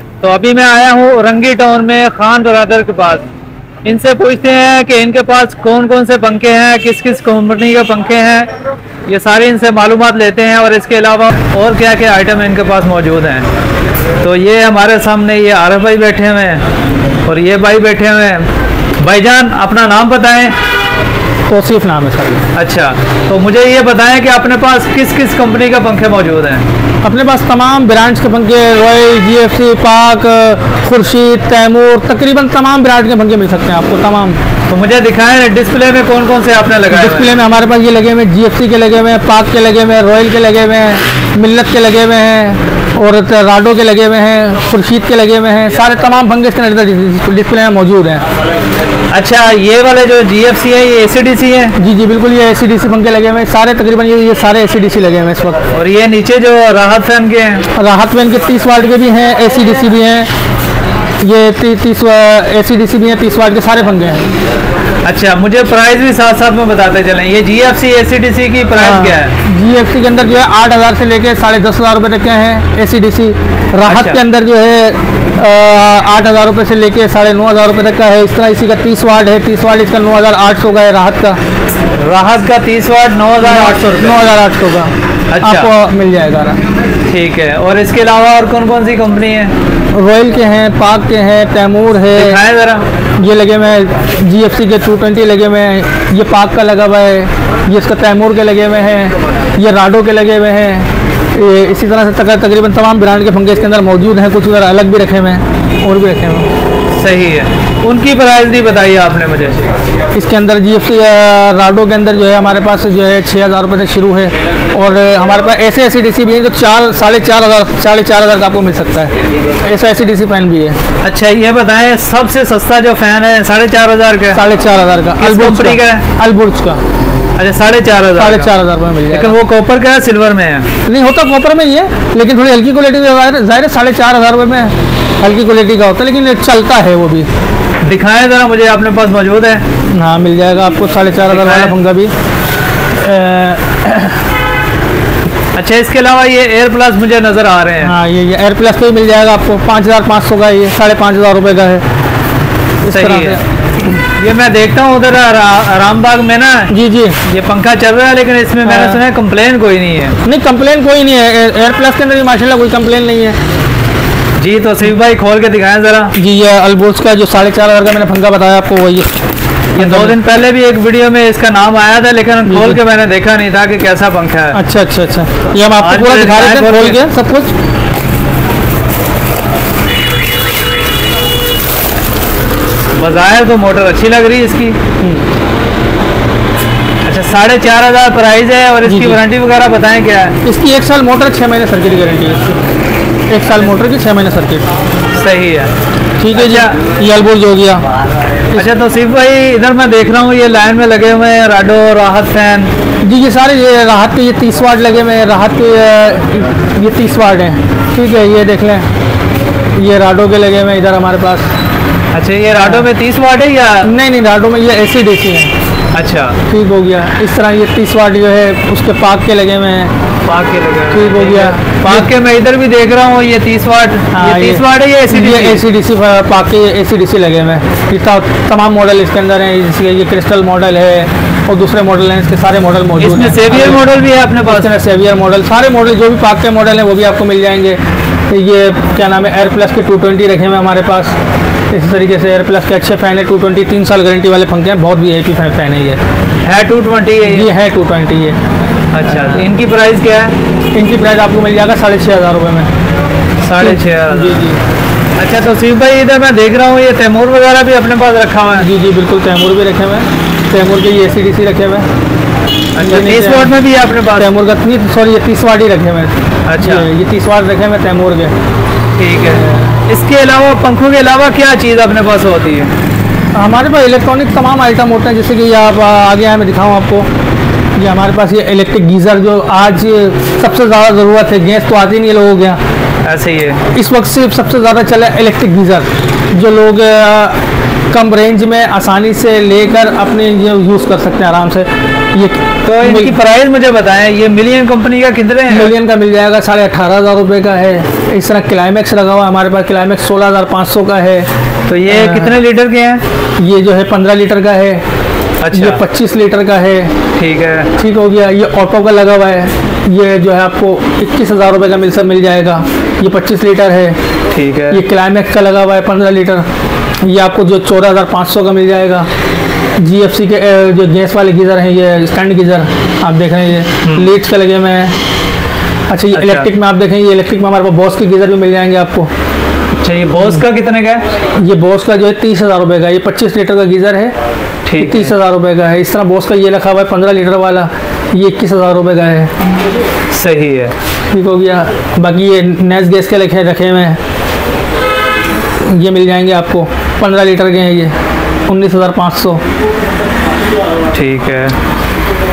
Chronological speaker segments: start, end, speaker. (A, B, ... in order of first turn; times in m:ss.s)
0:00.2-0:03.2 A
0:03.8-0:08.5 A
0:09.0-0:13.5 A
0:14.2-0:16.6 A
0:17.2-0:18.5 A
0:19.0-0:20.6 A
0:21.5-0:22.4 B
0:22.5-0:26.6 A
0:27.0-0:34.4 B
0:34.7-0:37.3 A
0:36.9-0:48.2 B
0:49.1-0:51.8 A
0:51.8-0:55.6 B
0:55.7-0:57.7 A
0:57.7-1:00.3 B
1:01.2-1:04.2 B
1:05.0-1:09.4 A
1:08.7-1:21.4 B
1:13.9-1:14.2 A
1:22.0-1:24.2 A
1:23.4-1:26.6 B
1:25.3-1:25.7 A
1:27.1-1:29.5 A
1:29.9-1:32.4 B
1:32.1-1:32.8 A
1:33.2-1:46.5 B
1:47.0-1:49.7 A
1:50.1-2:00.8 B
2:01.0-2:04.4 A
2:04.3-2:06.8 B
2:05.2-2:06.0 A
2:07.4-2:08.5 A
2:08.1-2:09.4 B
2:09.1-2:10.7 A
2:10.8-2:17.3 B
2:17.8-2:19.6 A
2:19.9-2:22.1 B
2:21.3-2:21.7 A
2:22.9-2:24.2 B
2:25.5-2:27.9 A
2:27.8-2:31.8 B
2:32.8-2:33.4 B
2:32.9-2:33.4 A
2:34.0-2:36.7 A
2:36.7-2:37.2 B
2:37.2-2:40.2 A
2:38.6-2:39.0 B
2:40.2-2:43.4 B
2:44.4-2:46.1 A
2:46.1-2:49.1 B
2:49.7-2:54.6 A
2:49.8-2:50.2 B
2:52.4-2:52.8 B
2:54.5-2:57.5 B
2:55.7-2:57.0 A
3:03.0-3:04.8 A
3:05.0-3:05.3 B
3:07.0-3:10.4 A
3:08.8-3:09.2 B
3:10.4-3:12.6 B
3:13.3-3:14.6 B
3:15.1-3:15.7 A
3:16.2-3:17.8 B
3:16.3-3:16.8 A
3:18.5-3:22.7 A
3:23.0-3:28.9 B
3:29.8-3:31.5 B
3:32.1-3:33.9 A
3:32.6-3:32.9 B
3:33.8-3:35.5 B
3:35.9-3:36.4 A
3:36.5-3:39.9 B
3:40.2-3:45.6 A
3:40.9-3:42.1 B
3:44.1-3:53.8 B
3:53.0-3:54.7 A
3:54.4-4:01.1 B
4:01.7-4:06.0 B
4:06.4-4:07.5 A
4:07.2-4:08.4 B
4:08.9-4:10.3 A
4:09.0-4:09.4 B
4:10.7-4:12.7 B
4:13.4-4:14.5 A
4:13.6-4:14.6 B
4:15.2-4:18.7 A
4:18.6-4:21.9 B
4:22.7-4:24.3 A
4:22.8-4:23.5 B
4:24.1-4:28.3 B
4:26.4-4:26.9 A
4:29.0-4:32.7 A
4:29.3-4:29.7 B
4:33.3-4:37.1 B
4:37.8-4:42.6 B
4:43.0-4:43.6 A
4:43.7-4:47.4 B
4:47.9-4:53.2 B
4:52.6-4:55.7 A
4:55.5-5:01.3 B
5:01.7-5:03.0 A
5:01.9-5:02.3 B
5:03.4-5:04.8 B
5:05.4-5:05.8 A
5:05.5-5:06.9 B
5:07.2-5:07.7 A
5:07.8-5:14.0 B
5:14.3-5:14.8 A
5:14.7-5:16.4 B
5:17.0-5:19.1 B
5:19.8-5:24.9 B
5:23.8-5:24.1 A
5:25.9-5:29.1 B
5:26.1-5:26.5 A
5:29.8-5:31.0 A
5:31.4-5:34.1 B
5:34.6-5:35.1 A
5:34.8-5:39.3 B
5:40.1-5:40.7 A
5:41.1-5:44.0 B
5:45.6-5:47.9 B
5:48.5-5:49.4 B
5:50.9-5:51.6 A